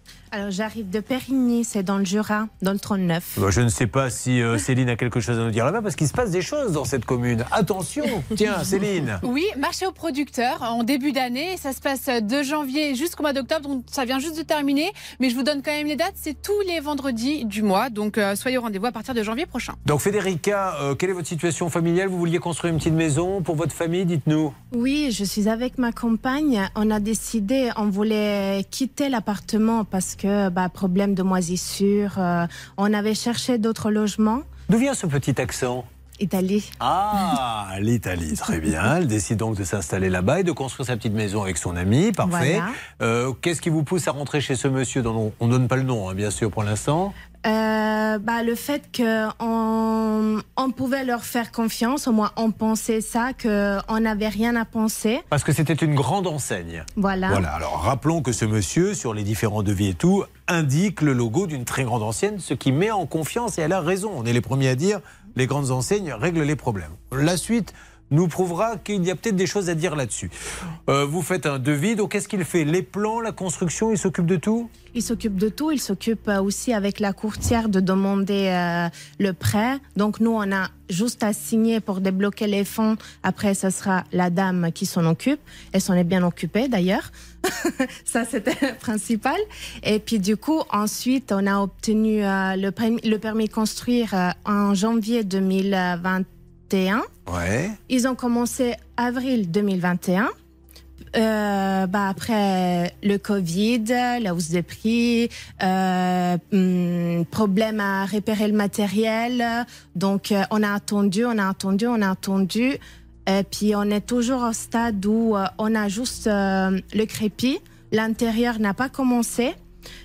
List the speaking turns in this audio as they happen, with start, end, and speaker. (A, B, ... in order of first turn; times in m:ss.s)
0:00.3-0:03.4 A
0:03.4-0:09.2 B
0:09.2-0:19.8 C
0:19.9-0:24.6 B
0:24.7-0:34.4 A
0:34.7-0:35.9 B
0:36.2-0:36.7 A
0:36.8-0:47.2 B
0:42.2-0:42.8 A
0:47.4-0:55.2 A
0:55.3-1:10.3 B
0:57.0-0:57.5 A
1:10.9-1:14.7 B
1:14.9-1:37.1 A
1:37.3-1:37.8 B
1:37.9-1:40.3 A
1:41.2-1:59.6 A